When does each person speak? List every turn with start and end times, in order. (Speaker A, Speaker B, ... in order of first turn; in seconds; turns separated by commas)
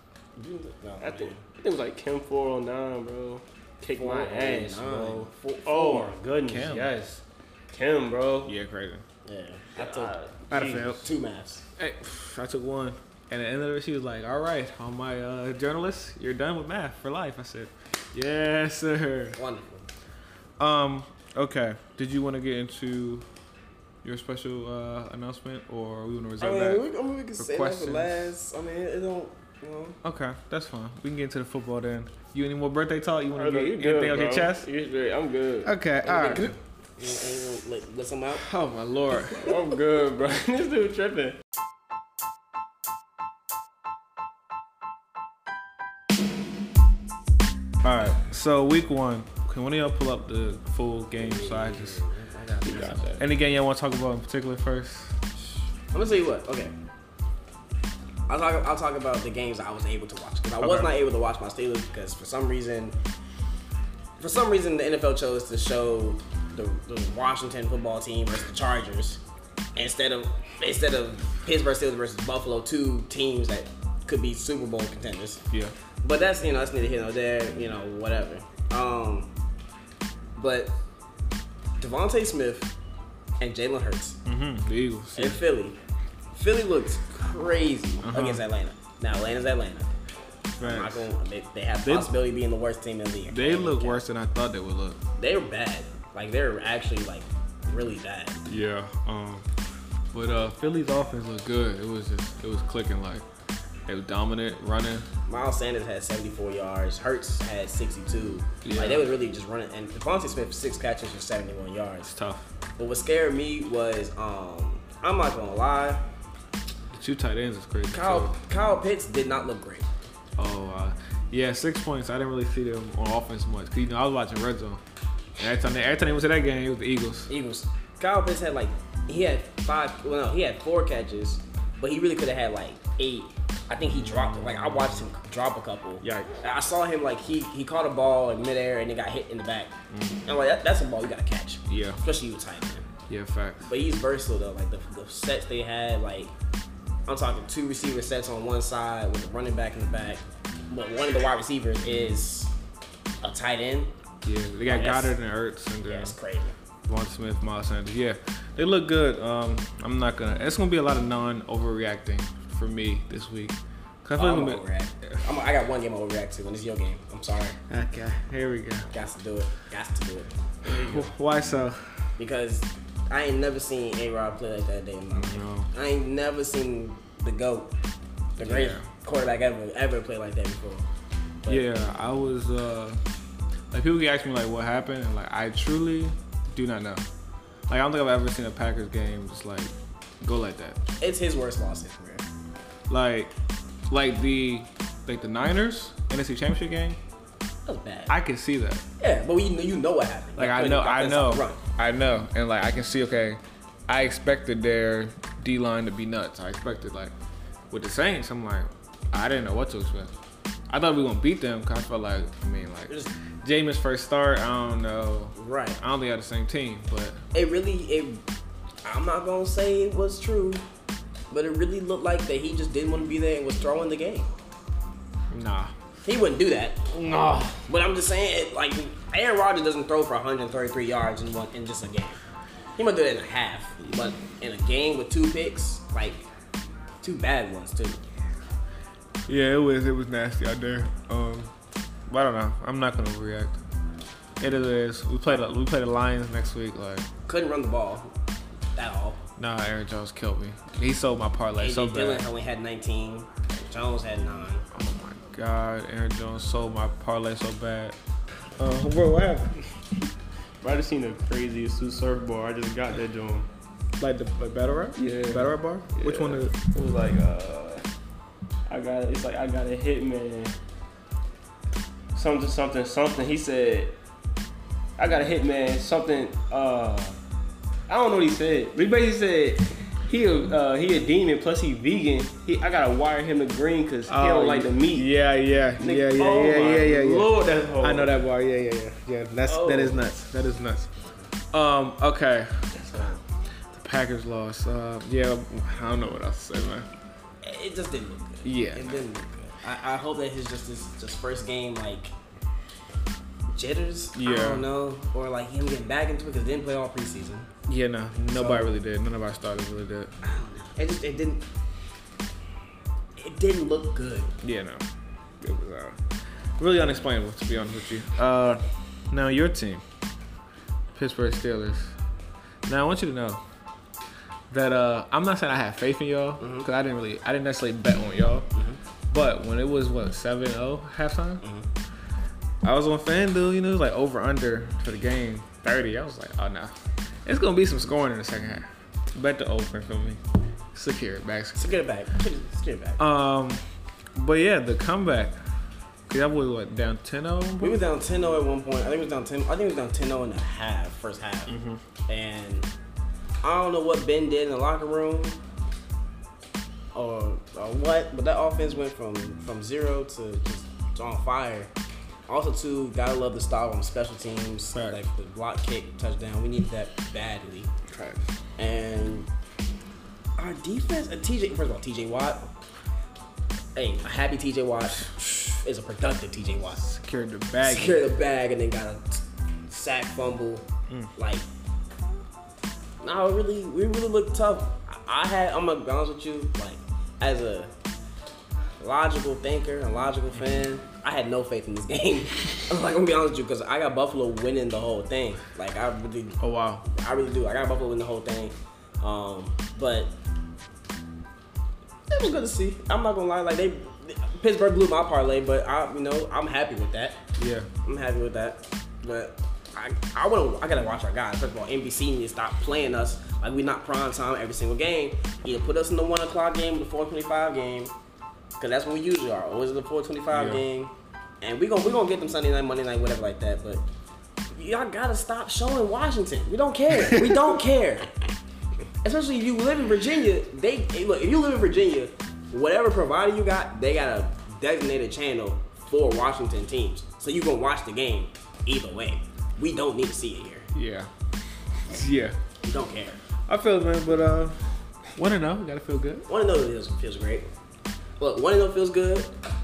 Speaker A: 0.4-1.4, Speaker B: 1.0-8.5, Speaker A: 4.0-6.2, Speaker C: 6.5-7.0, Speaker C: 8.4-9.1, Speaker A: 9.2-10.1, Speaker B: 9.8-11.0, Speaker C: 10.5-11.1, Speaker A: 11.0-11.6, Speaker C: 11.8-19.4, Speaker A: 19.4-19.9, Speaker C: 20.6-23.3, Speaker C: 24.0-26.9, Speaker A: 26.4-30.0, Speaker C: 27.4-28.3, Speaker C: 30.0-34.7, Speaker B: 33.4-35.7, Speaker C: 35.6-36.5, Speaker A: 36.0-38.5, Speaker C: 38.4-39.5, Speaker B: 39.4-41.4, Speaker C: 47.8-52.0, Speaker A: 51.2-53.2, Speaker B: 52.6-53.2, Speaker C: 53.2-55.2, Speaker A: 55.9-56.7, Speaker A: 58.3-63.0, Speaker C: 60.6-60.9, Speaker A: 64.2-69.2, Speaker A: 69.8-75.4, Speaker A: 76.0-79.3, Speaker A: 80.4-80.7, Speaker A: 81.8-82.7, Speaker A: 83.4-84.2, Speaker C: 84.2-85.4, Speaker A: 85.2-85.8, Speaker A: 86.3-89.9, Speaker C: 88.0-88.4, Speaker C: 90.6-91.1, Speaker A: 90.6-94.0, Speaker C: 91.8-92.1, Speaker C: 93.3-95.0, Speaker A: 95.2-98.4, Speaker C: 98.5-99.5, Speaker C: 100.1-103.2, Speaker C: 103.9-105.1, Speaker A: 105.3-112.1, Speaker C: 108.6-109.1, Speaker C: 112.0-112.5, Speaker A: 112.8-116.0, Speaker C: 116.9-118.3, Speaker A: 117.9-119.9, Speaker C: 120.4-124.8, Speaker C: 125.4-127.3, Speaker A: 127.3-139.7, Speaker C: 133.9-135.1, Speaker C: 139.9-140.2, Speaker A: 140.2-142.9, Speaker C: 141.7-142.0, Speaker C: 143.1-143.7, Speaker A: 143.6-146.3, Speaker A: 147.1-152.5, Speaker A: 153.2-153.9, Speaker C: 154.2-156.2, Speaker A: 154.7-155.2, Speaker A: 155.8-156.6, Speaker C: 156.9-165.2, Speaker A: 164.2-167.6, Speaker C: 167.7-168.9, Speaker A: 168.9-170.3, Speaker C: 170.7-172.1, Speaker B: 170.7-171.1, Speaker A: 172.2-177.7, Speaker C: 175.1-175.7, Speaker A: 178.4-180.8, Speaker C: 178.4-178.9, Speaker C: 181.5-183.0, Speaker C: 183.7-187.1, Speaker C: 187.7-190.8, Speaker A: 191.0-192.2, Speaker C: 192.9-193.3, Speaker C: 193.9-197.0, Speaker A: 197.7-198.2, Speaker C: 198.1-198.8, Speaker A: 199.0-201.6, Speaker C: 200.4-207.1, Speaker C: 207.7-210.2, Speaker C: 210.7-217.2, Speaker A: 215.3-215.8, Speaker A: 217.3-218.2, Speaker A: 218.8-220.6, Speaker A: 221.3-224.3, Speaker C: 225.3-225.7, Speaker A: 226.1-226.9, Speaker C: 226.9-227.6, Speaker A: 227.7-232.2, Speaker A: 232.8-236.3, Speaker A: 237.0-238.0, Speaker C: 239.3-241.5, Speaker C: 242.1-243.6, Speaker C: 244.4-247.1, Speaker A: 247.3-248.1, Speaker A: 248.8-249.2, Speaker C: 249.4-252.3, Speaker A: 251.6-254.7, Speaker C: 254.7-258.0, Speaker C: 258.6-259.6, Speaker B: 260.6-263.5, Speaker C: 264.0-266.5, Speaker B: 265.0-267.9, Speaker B: 268.7-270.5, Speaker B: 272.1-274.0, Speaker B: 275.0-277.2, Speaker B: 277.9-285.1, Speaker C: 284.1-290.9, Speaker B: 285.8-288.2, Speaker B: 289.5-290.0, Speaker C: 291.5-293.0, Speaker A: 292.9-293.2, Speaker C: 293.7-296.9, Speaker A: 297.4-302.1, Speaker C: 298.4-299.0, Speaker A: 303.5-307.5, Speaker C: 304.1-304.7, Speaker C: 307.7-310.1, Speaker A: 308.3-308.8, Speaker A: 310.2-311.4, Speaker A: 313.2-314.3, Speaker C: 314.4-314.9, Speaker C: 315.4-316.0, Speaker C: 316.6-319.8, Speaker C: 320.9-321.9, Speaker C: 322.7-323.4, Speaker C: 324.5-328.5, Speaker A: 326.4-326.7, Speaker A: 328.5-328.8, Speaker C: 329.1-331.4, Speaker A: 331.4-331.7, Speaker C: 332.6-340.2, Speaker C: 340.7-341.8, Speaker A: 341.6-343.0, Speaker C: 343.0-343.6, Speaker C: 344.1-345.4, Speaker C: 346.1-347.8, Speaker A: 347.6-351.6, Speaker C: 351.5-351.8, Speaker A: 352.1-352.7, Speaker A: 353.4-355.4, Speaker A: 356.9-361.7, Speaker A: 362.3-367.7, Speaker C: 364.7-365.0, Speaker C: 367.9-368.3, Speaker A: 368.6-369.3, Speaker A: 370.4-372.5, Speaker A: 373.8-376.8, Speaker C: 376.8-378.1, Speaker A: 377.6-380.6, Speaker A: 381.2-381.4, Speaker A: 383.0-387.7, Speaker A: 388.8-400.1, Speaker C: 390.4-390.6, Speaker C: 396.4-396.9, Speaker A: 402.1-407.2, Speaker C: 407.4-407.7, Speaker A: 407.8-417.9, Speaker A: 418.6-423.8, Speaker C: 420.3-420.6, Speaker A: 424.5-428.1, Speaker A: 429.0-440.7, Speaker C: 440.7-441.1, Speaker C: 441.7-442.4, Speaker A: 442.6-443.2, Speaker C: 443.5-444.6, Speaker C: 445.2-446.3, Speaker A: 446.3-447.5, Speaker A: 448.2-449.4